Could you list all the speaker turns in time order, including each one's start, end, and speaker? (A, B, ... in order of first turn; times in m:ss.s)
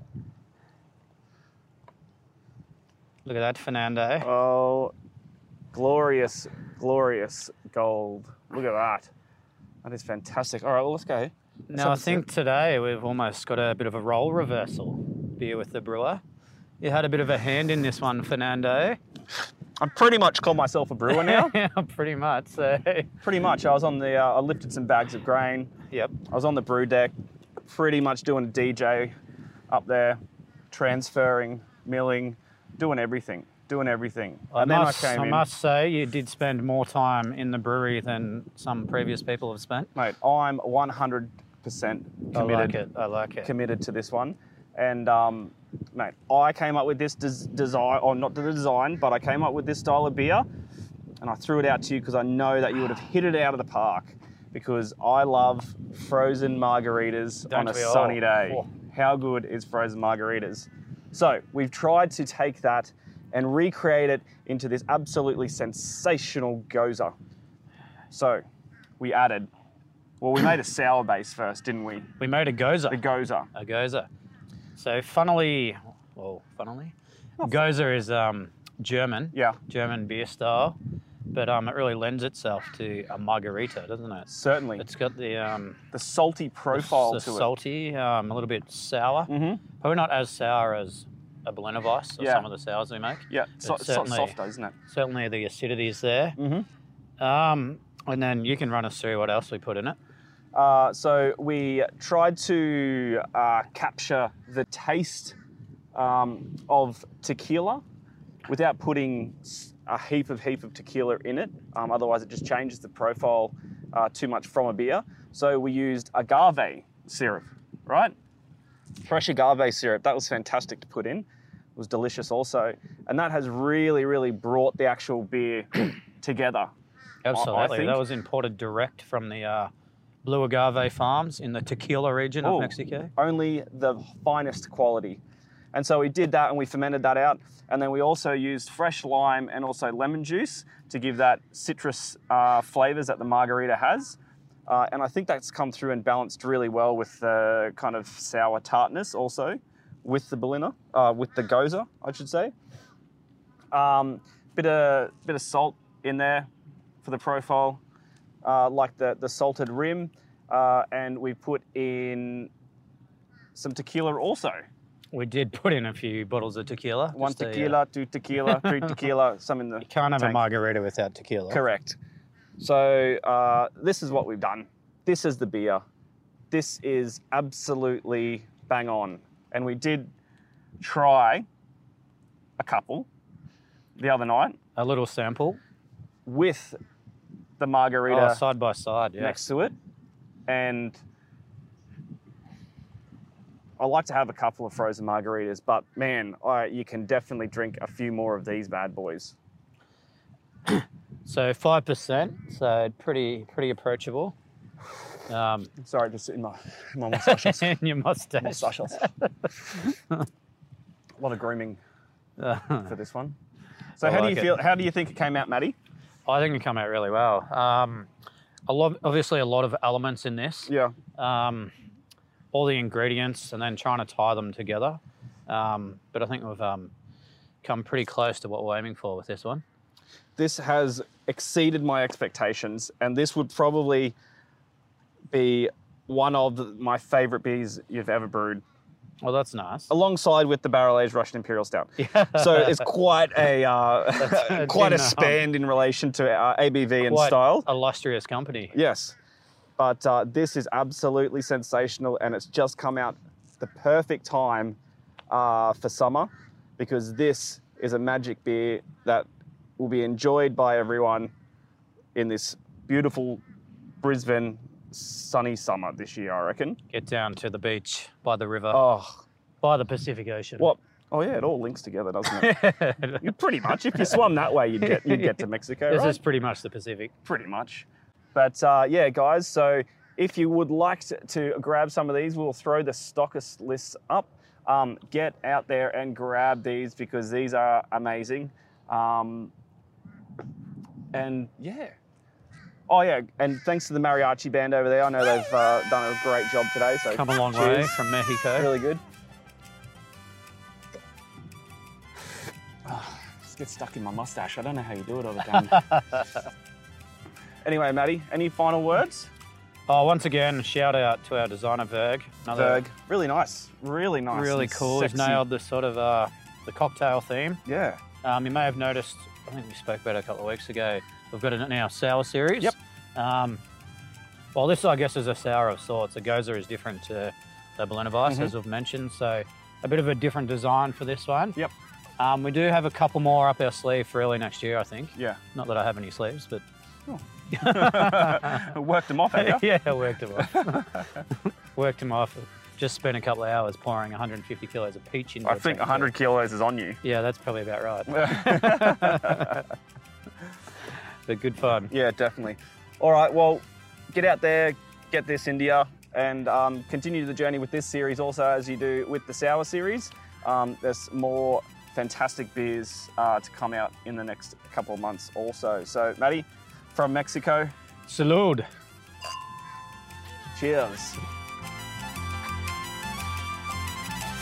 0:03.2-0:04.3 A
0:04.2-0:04.9 B
0:05.7-0:09.1 B
0:09.8-0:12.2 B
0:11.7-0:16.2 A
0:16.8-0:19.0 A
0:19.8-0:21.5 B
0:21.1-0:23.1 A
0:23.2-0:25.7 B
0:25.9-0:26.2 A
0:26.3-0:27.1 B
0:27.6-0:29.1 B
0:29.7-0:30.2 B
0:30.7-0:35.4 B
0:34.5-0:39.9 A
0:40.0-0:42.8 B
0:42.3-0:43.5 A
0:43.4-0:50.4 B
0:51.2-1:07.2 B
0:57.5-0:58.7 A
1:08.1-1:08.4 B
1:09.0-1:09.5 B
1:10.2-1:12.1 B
1:12.2-1:13.0 A
1:12.9-1:13.5 B
1:13.5-1:14.1 A
1:14.8-1:20.8 A
1:21.3-1:24.3 A
1:24.3-1:24.8 B
1:24.8-1:25.8 A
1:25.9-1:27.5 B
1:26.7-1:34.3 A
1:29.3-1:29.6 B
1:32.2-1:32.5 B
1:33.3-1:34.7 B
1:34.9-1:36.4 A
1:36.4-1:36.7 B
1:37.2-1:40.0 A
1:40.5-1:45.4 B
1:45.9-1:47.8 B
1:48.5-1:58.1 B
1:59.0-2:06.7 B
2:07.2-2:09.7 A
2:07.3-2:08.0 B
2:10.2-2:13.1 A
2:12.4-2:15.2 B
2:15.7-2:32.5 B
2:33.7-2:36.5 B
2:37.0-2:37.8 B
2:38.4-2:42.5 B
2:43.5-2:44.6 B
2:45.1-2:47.8 A
2:47.1-2:50.4 B
2:49.8-2:51.6 A
2:51.5-2:52.0 B
2:52.6-2:55.8 B
2:56.5-3:00.1 B
3:00.8-3:01.4 B
3:02.6-3:03.1 B
3:04.0-3:04.6 B
3:04.8-3:05.6 A
3:06.2-3:06.8 B
3:07.6-3:08.4 B
3:08.1-3:09.4 A
3:09.2-3:09.8 B
3:10.5-3:11.0 B
3:13.8-3:19.4 B
3:20.7-3:24.3 A
3:25.3-3:25.7 A
3:25.8-3:27.8 B
3:27.2-3:30.2 A
3:28.4-3:29.1 B
3:31.2-3:31.8 B
3:32.4-3:32.9 A
3:32.9-3:33.4 B
3:34.0-3:35.8 B
3:34.0-3:34.6 A
3:36.2-3:38.1 A
3:38.7-3:41.7 A
3:40.7-3:41.0 B
3:42.5-3:46.9 A
3:47.6-3:49.6 A
3:50.4-3:54.2 B
3:55.3-3:58.6 B
3:59.2-3:59.9 A
3:59.9-4:07.7 B
4:02.0-4:02.8 A
4:04.2-4:05.4 A
4:07.0-4:08.7 A
4:08.7-4:09.1 B
4:09.8-4:14.8 B
4:15.3-4:19.3 B
4:19.8-4:21.3 B
4:22.1-4:23.4 B
4:24.0-4:26.8 B
4:26.9-4:28.8 A
4:28.7-4:29.2 B
4:29.6-4:30.7 A
4:30.6-4:32.6 B
4:32.4-4:33.3 A
4:33.2-4:36.2 B
4:34.9-4:35.4 A
4:35.9-4:37.1 A
4:37.2-4:49.5 B
4:51.1-4:52.0 B
4:52.9-4:58.0 B
4:57.1-4:58.7 A
4:58.6-4:59.0 B
5:02.8-5:05.9 B
5:07.6-5:09.3 B
5:09.9-5:12.8 A
5:12.5-5:15.4 B
5:14.3-5:17.6 A
5:17.6-5:18.0 B
5:18.2-5:23.6 A
5:24.5-5:31.6 A
5:28.2-5:28.5 B
5:32.2-5:36.6 A
5:35.2-5:35.4 B
5:37.1-5:39.7 B
5:37.5-5:38.7 A
5:39.3-5:46.1 A
5:45.4-5:47.0 B
5:47.0-5:49.6 A
5:48.1-5:49.5 B
5:51.3-5:51.9 A
5:51.9-6:07.7 B
6:08.1-6:08.7 A
6:10.5-6:11.2 B